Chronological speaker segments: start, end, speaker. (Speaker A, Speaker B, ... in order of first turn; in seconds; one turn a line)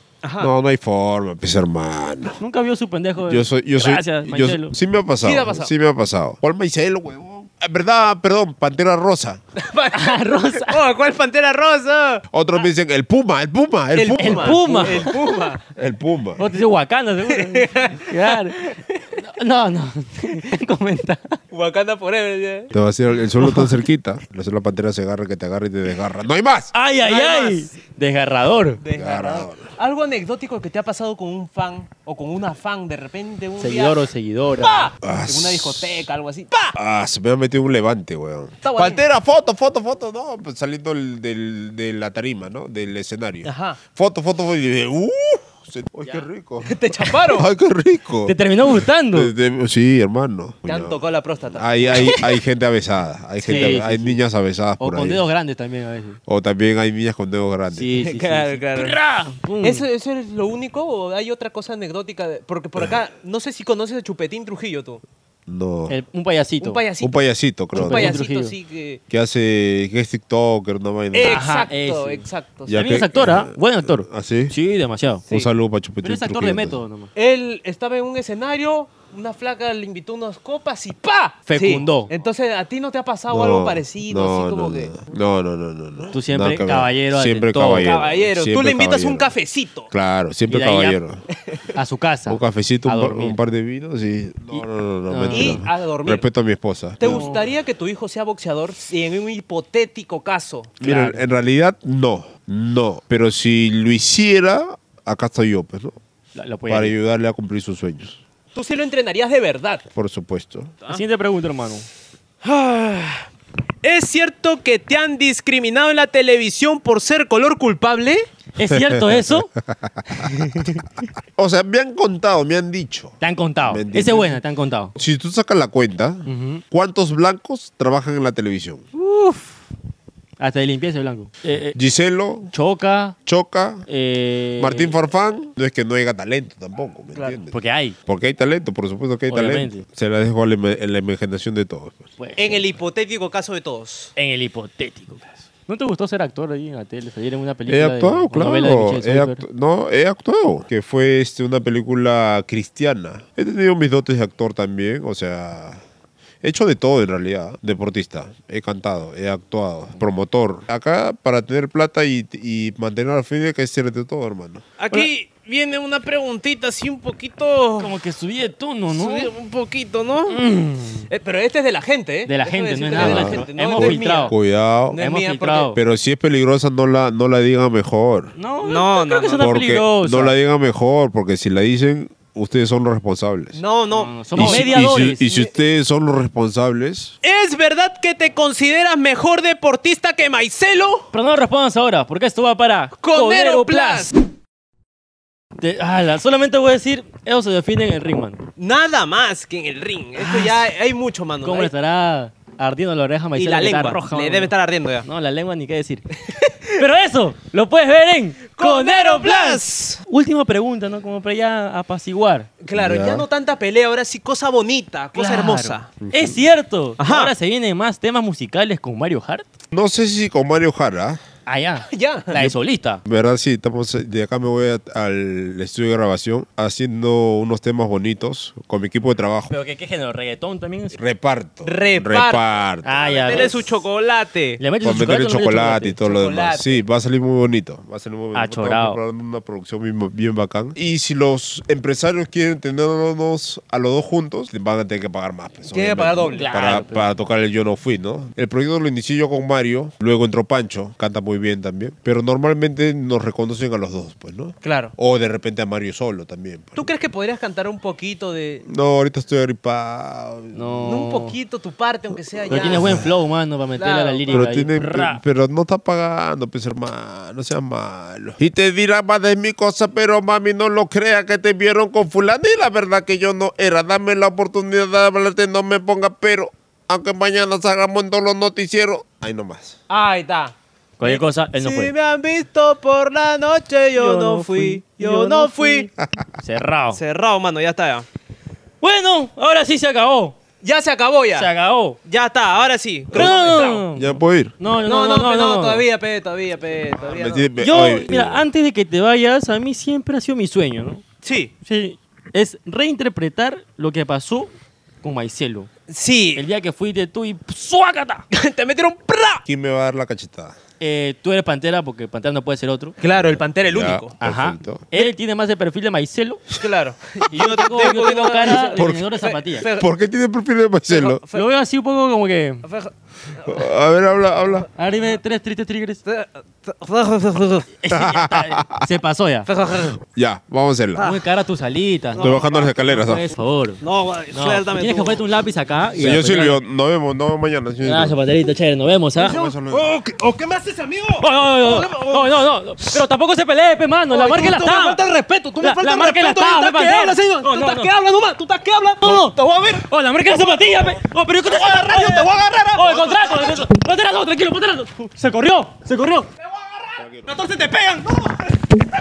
Speaker A: 0.2-0.5
Speaker B: 0.4-2.4
Speaker C: 2.4-4.7
Speaker B: 3.3-9.4
Speaker A: 5.2-5.7
Speaker A: 9.6-12.3
Speaker C: 9.9-10.8
Speaker B: 12.3-15.1
Speaker A: 13.9-15.6
Speaker C: 14.1-15.4
Speaker B: 15.8-16.4
Speaker C: 16.4-21.4
Speaker A: 17.3-19.1
Speaker A: 21.5-22.7
Speaker B: 22.7-26.7
Speaker C: 23.4-23.8
Speaker C: 26.7-28.8
Speaker A: 27.0-27.7
Speaker A: 28.8-34.0
Speaker B: 28.9-29.7
Speaker C: 33.6-34.9
Speaker A: 34.6-36.8
Speaker B: 35.0-36.0
Speaker B: 36.7-51.0
Speaker A: 38.6-39.0
Speaker A: 43.4-43.8
Speaker A: 46.6-47.5
Speaker C: 48.2-49.3
Speaker A: 50.6-52.4
Speaker B: 51.5-55.3
Speaker A: 53.4-53.8
Speaker C: 53.4-54.2
Speaker C: 54.8-56.2
Speaker B: 56.3-57.9
Speaker C: 57.7-59.8
Speaker A: 58.0-59.0
Speaker A: 59.6-65.0
Speaker B: 65.5-66.0
Speaker C: 65.9-66.8
Speaker A: 66.6-67.2
Speaker B: 67.0-68.1
Speaker C: 67.7-68.5
Speaker A: 67.7-69.0
Speaker B: 69.1-71.5
Speaker A: 71.1-73.0
Speaker C: 71.2-75.2
Speaker B: 72.7-74.5
Speaker B: 75.3-76.8
Speaker C: 76.0-77.1
Speaker A: 77.1-85.0
Speaker C: 81.5-82.1
Speaker B: 83.3-89.3
Speaker C: 86.1-88.0
Speaker A: 87.8-89.9
Speaker B: 89.9-91.2
Speaker C: 90.5-91.0
Speaker A: 91.4-91.7
Speaker C: 91.7-93.3
Speaker B: 92.3-97.3
Speaker C: 94.5-95.6
Speaker A: 95.3-96.2
Speaker A: 97.0-100.8
Speaker C: 97.0-97.4
Speaker C: 100.8-101.2
Speaker B: 100.8-106.0
Speaker C: 106.3-106.9
Speaker B: 106.7-108.2
Speaker A: 108.5-109.8
Speaker B: 109.9-110.7
Speaker C: 110.9-111.9
Speaker A: 112.4-113.3
Speaker A: 113.8-118.2
Speaker C: 118.5-119.5
Speaker B: 118.7-120.4
Speaker C: 120.1-120.8
Speaker B: 121.3-124.4
Speaker C: 123.2-124.9
Speaker B: 124.9-128.8
Speaker C: 126.2-126.6
Speaker C: 128.9-129.6
Speaker C: 130.4-131.8
Speaker B: 131.7-132.5
Speaker C: 132.5-133.2
Speaker B: 133.2-133.8
Speaker C: 133.9-135.0
Speaker B: 134.6-142.1
Speaker A: 137.1-137.4
Speaker C: 137.5-137.9
Speaker C: 139.3-139.8
Speaker C: 142.2-142.6
Speaker A: 142.4-144.1
Speaker C: 144.2-149.4
Speaker B: 147.7-155.8
Speaker B: 156.4-164.7
Speaker A: 164.8-167.9
Speaker C: 167.8-169.3
Speaker A: 168.9-170.4
Speaker C: 170.3-171.1
Speaker A: 171.1-174.3
Speaker C: 172.3-174.3
Speaker B: 172.9-175.0
Speaker A: 174.9-175.7
Speaker C: 174.9-175.8
Speaker B: 175.7-178.3
Speaker C: 178.4-180.3
Speaker A: 178.6-179.5
Speaker B: 179.4-183.6
Speaker A: 183.5-185.5
Speaker C: 183.9-185.3
Speaker B: 184.3-187.2
Speaker A: 187.2-191.1
Speaker C: 191.1-194.2
Speaker A: 193.0-194.1
Speaker C: 195.6-198.4
Speaker A: 198.6-201.7
Speaker C: 200.2-200.7
Speaker C: 201.4-204.5
Speaker A: 203.3-205.1
Speaker C: 205.0-206.1
Speaker A: 206.2-206.8
Speaker C: 206.8-212.5
Speaker A: 208.5-210.0
Speaker A: 212.6-215.9
Speaker B: 212.7-213.2
Speaker C: 215.1-219.4
Speaker B: 216.0-216.4
Speaker A: 217.0-217.3
Speaker B: 219.7-221.2
Speaker C: 221.4-223.0
Speaker A: 221.9-222.4
Speaker B: 223.0-229.5
Speaker C: 229.5-231.0
Speaker B: 230.9-233.5
Speaker A: 231.6-234.6
Speaker C: 232.8-233.8
Speaker C: 234.6-236.0
Speaker B: 234.8-256.9
Speaker A: 236.0-236.8
Speaker C: 238.3-239.0
Speaker A: 245.7-246.5
Speaker C: 246.3-247.0
Speaker A: 254.6-254.9
Speaker A: 256.8-258.6
Speaker B: 258.6-260.9
Speaker C: 260.5-261.4
Speaker A: 260.8-263.0
Speaker C: 262.5-265.2
Speaker B: 262.5-263.1
Speaker A: 263.8-264.4
Speaker B: 264.3-279.8
Speaker A: 279.9-285.9
Speaker C: 281.0-281.9
Speaker C: 283.9-287.0
Speaker B: 286.0-286.4
Speaker A: 286.9-288.1
Speaker C: 288.8-290.4
Speaker A: 290.6-291.5
Speaker C: 291.3-292.0
Speaker A: 292.0-293.8
Speaker B: 293.1-294.5
Speaker C: 293.1-295.8
Speaker A: 294.8-297.5
Speaker B: 297.1-298.5
Speaker C: 297.6-301.0
Speaker A: 301.2-301.5
Speaker C: 301.6-305.7
Speaker A: 305.9-306.4
Speaker C: 306.4-308.2
Speaker A: 308.3-309.4
Speaker B: 309.4-310.6
Speaker C: 310.8-312.9
Speaker A: 313.0-314.1
Speaker B: 313.2-314.9
Speaker C: 314.2-316.5
Speaker A: 316.6-319.9
Speaker C: 317.3-319.7
Speaker B: 318.7-319.1
Speaker B: 319.7-321.2
Speaker A: 320.9-321.4
Speaker C: 321.3-322.6
Speaker A: 322.6-323.6
Speaker B: 323.4-324.7
Speaker C: 324.8-326.0
Speaker A: 326.0-327.7
Speaker C: 327.8-329.5
Speaker B: 327.9-328.9
Speaker A: 329.4-330.0
Speaker B: 330.0-331.1
Speaker A: 330.9-331.2
Speaker C: 331.0-333.8
Speaker A: 332.1-332.7
Speaker B: 332.2-333.3
Speaker A: 333.8-335.2
Speaker C: 334.3-336.6
Speaker B: 336.0-338.2
Speaker C: 337.8-339.4
Speaker A: 339.2-342.2
Speaker B: 339.2-340.0
Speaker C: 341.2-345.0
Speaker A: 344.1-350.9
Speaker C: 345.6-347.9
Speaker C: 349.0-356.3
Speaker A: 351.4-353.7
Speaker A: 356.6-358.6